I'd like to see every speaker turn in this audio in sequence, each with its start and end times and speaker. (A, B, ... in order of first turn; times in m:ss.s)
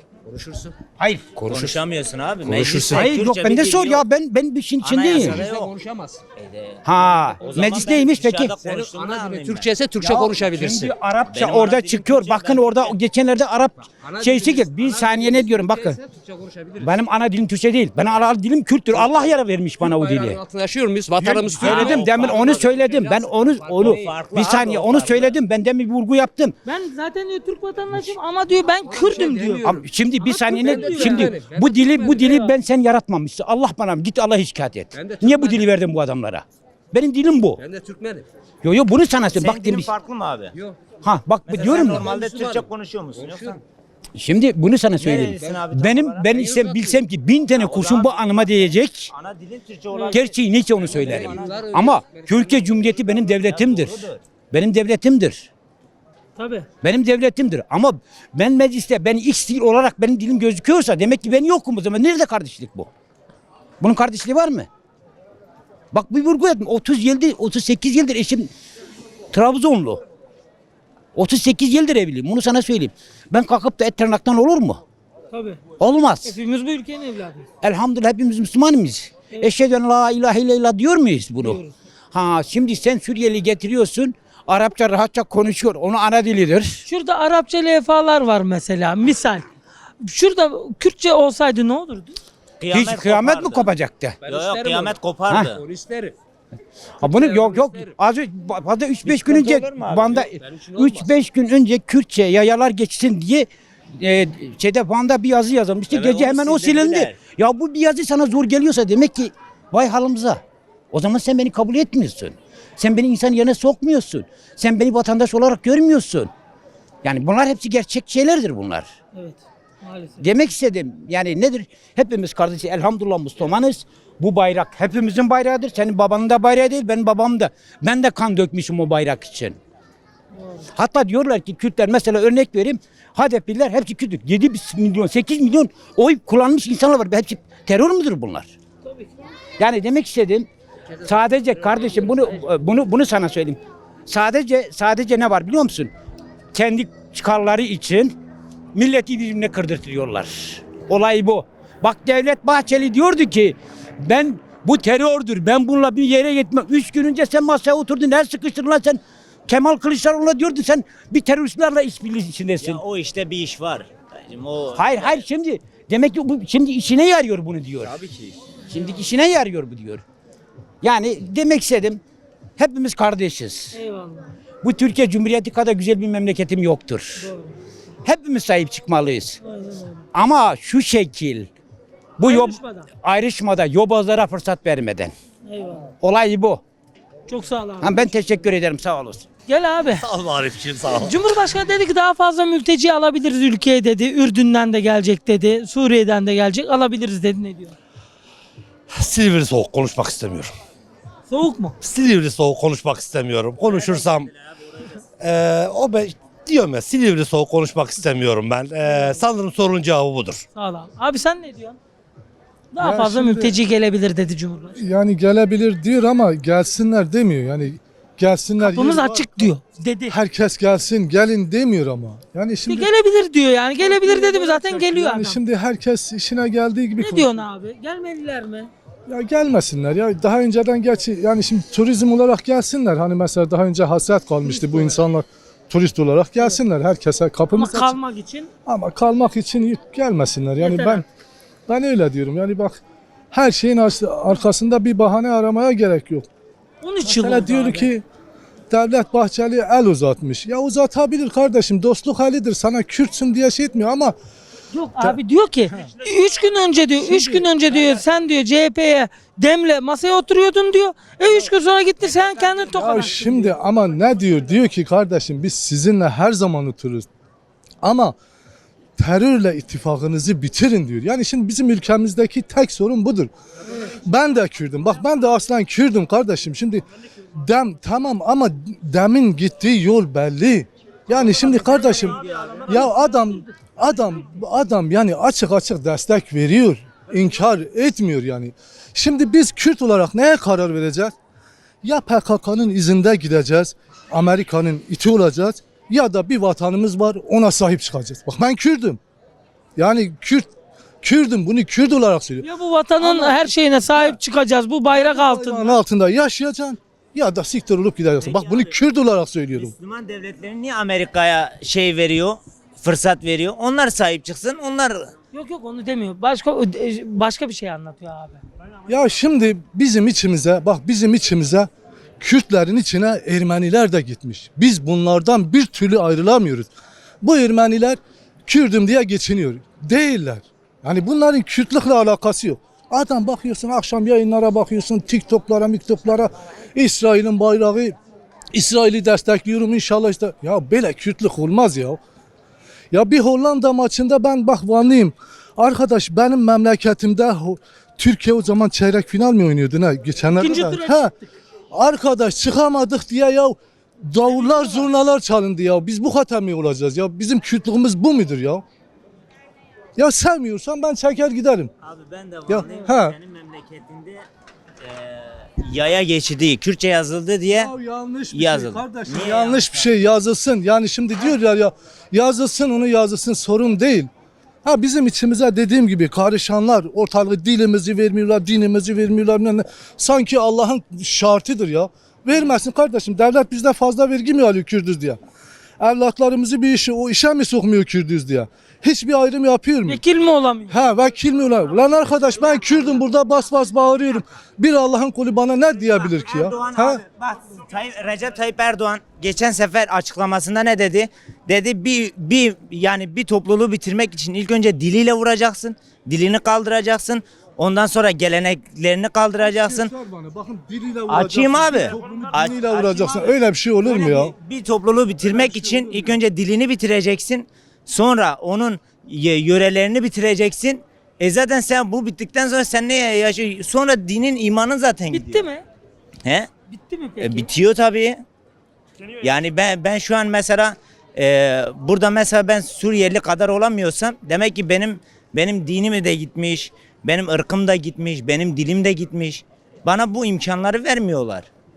0:00.3-0:00.7 A
0:01.0-0:01.8 B
0:01.5-0:04.0 C
0:02.4-0:05.5 B
0:04.8-0:05.7 C
0:05.1-0:06.2 A
0:06.4-0:06.8 C
0:06.8-0:08.5 B
0:07.4-0:09.7 C
0:08.6-0:11.0 A
0:10.0-0:16.0 B
0:11.3-0:12.9 C
0:14.0-0:17.1 A
0:16.8-0:20.4 B
0:19.0-0:25.3 A
0:21.2-0:26.6 B
0:21.6-0:22.6 C
0:23.8-0:25.3 C
0:26.6-0:29.6 D
0:28.8-0:32.6 A
0:29.6-0:37.6 B
0:30.2-0:31.3 D
0:34.9-0:35.8 A
0:37.6-0:38.2 A
0:38.6-0:39.9 B
0:39.3-0:40.5 C
0:40.5-0:40.8 A
0:41.0-0:42.2 B
0:41.5-0:43.6 C
0:41.5-0:43.6 A
0:44.2-0:49.1 B
0:45.0-0:46.3 C
0:45.2-0:45.6 A
0:46.3-0:47.0 A
0:47.6-0:51.7 C
0:49.9-0:50.2 D
0:50.1-0:55.5 B
0:50.9-0:52.8 A
0:53.4-0:54.2 C
0:56.4-0:56.7 D
0:56.8-1:02.9 B
1:03.8-1:04.7 B
1:05.9-1:08.5 B
1:09.3-1:10.0 B
1:11.2-1:14.8 B
1:15.3-1:15.6 D
1:15.8-1:16.4 B
1:16.2-1:17.5 D
1:17.6-1:21.6 B
1:21.4-1:21.7 D
1:22.1-1:26.8 B
1:26.9-1:29.5 D
1:30.0-1:32.2 D
1:32.6-1:33.7 C
1:32.7-1:34.2 B
1:34.2-1:36.2 A
1:34.3-1:35.6 C
1:37.0-1:56.3 B
1:37.0-1:38.0 A
1:39.1-1:40.2 C
1:40.2-1:41.1 A
1:45.9-1:47.2 C
1:57.0-1:58.9 B
1:59.1-2:00.2 D
2:00.2-2:09.6 B
2:10.8-2:18.6 B
2:18.8-2:19.2 D
2:19.6-2:20.5 B
2:20.9-2:22.5 A
2:21.0-2:25.9 B
2:26.5-2:28.2 B
2:28.7-2:42.8 B
2:42.6-2:45.2 C
2:44.8-2:48.0 B
2:47.8-2:48.4 C
2:48.7-2:50.0 B
2:50.8-2:52.0 B
2:52.6-2:53.8 B
2:53.7-2:54.3 D
2:54.6-2:57.3 B
2:57.2-2:57.5 D
2:58.0-2:59.4 B
2:59.4-3:00.0 D
3:00.1-3:01.5 B
3:02.2-3:05.1 B
3:02.2-3:02.9 D
3:05.5-3:05.9 D
3:06.0-3:06.6 B
3:07.3-3:08.1 D
3:07.8-3:09.3 B
3:09.5-3:10.1 D
3:10.0-3:11.2 E
3:10.9-3:17.8 D
3:18.9-3:20.5 E
3:21.3-3:21.8 D
3:21.8-3:24.3 E
3:23.7-3:24.4 C
3:25.2-3:30.4 E
3:30.6-3:31.8 D
3:32.7-3:34.8 D
3:32.8-3:33.6 F
3:34.8-3:39.5 F
3:38.6-3:40.2 D
3:40.1-3:42.9 F
3:42.7-3:45.4 D
3:43.8-3:47.4 F
3:47.0-3:48.7 D
3:49.1-3:58.0 F
3:54.5-3:55.0 D
3:57.6-3:58.5 D
3:58.7-4:01.0 F
4:00.6-4:01.0 D
4:01.7-4:02.8 F
4:03.3-4:06.3 F
4:06.8-4:07.9 D
4:07.0-4:08.0 F
4:08.7-4:14.2 F
4:14.7-4:23.5 D
4:17.0-4:17.5 F
4:22.7-4:27.1 F
4:27.8-4:28.2 F
4:29.0-4:33.3 F
4:33.9-4:36.8 F
4:37.4-4:51.2 F
4:41.2-4:42.8 C
4:51.8-4:59.0 F
4:59.8-5:00.5 F
5:01.0-5:02.4 F
5:02.4-5:05.8 D
5:03.0-5:04.2 F
5:04.9-5:09.7 F
5:08.2-5:08.8 C
5:09.5-5:15.1 C
5:15.3-5:18.4 D
5:18.9-5:21.7 F
5:22.2-5:26.7 F
5:27.2-5:38.0 F
5:38.5-5:42.0 F
5:42.9-5:51.1 F
5:50.4-5:51.2 D
5:51.7-5:58.6 F
6:00.0-6:01.7 F
6:01.8-6:04.3 C
6:02.5-6:03.2 F
6:04.8-6:07.7 C
6:07.5-6:14.1 F
6:08.3-6:09.9 C
6:14.6-6:25.2 F
6:25.8-6:30.0 F
6:29.9-6:30.8 D
6:30.7-6:37.0 F
6:32.5-6:32.8 C
6:35.9-6:49.9 C
6:49.4-6:54.3 F
6:51.1-7:05.5 C
6:55.2-6:56.2 F
7:05.1-7:05.6 D
7:06.7-7:07.5 D
7:07.2-7:08.2 C
7:09.2-7:21.5 C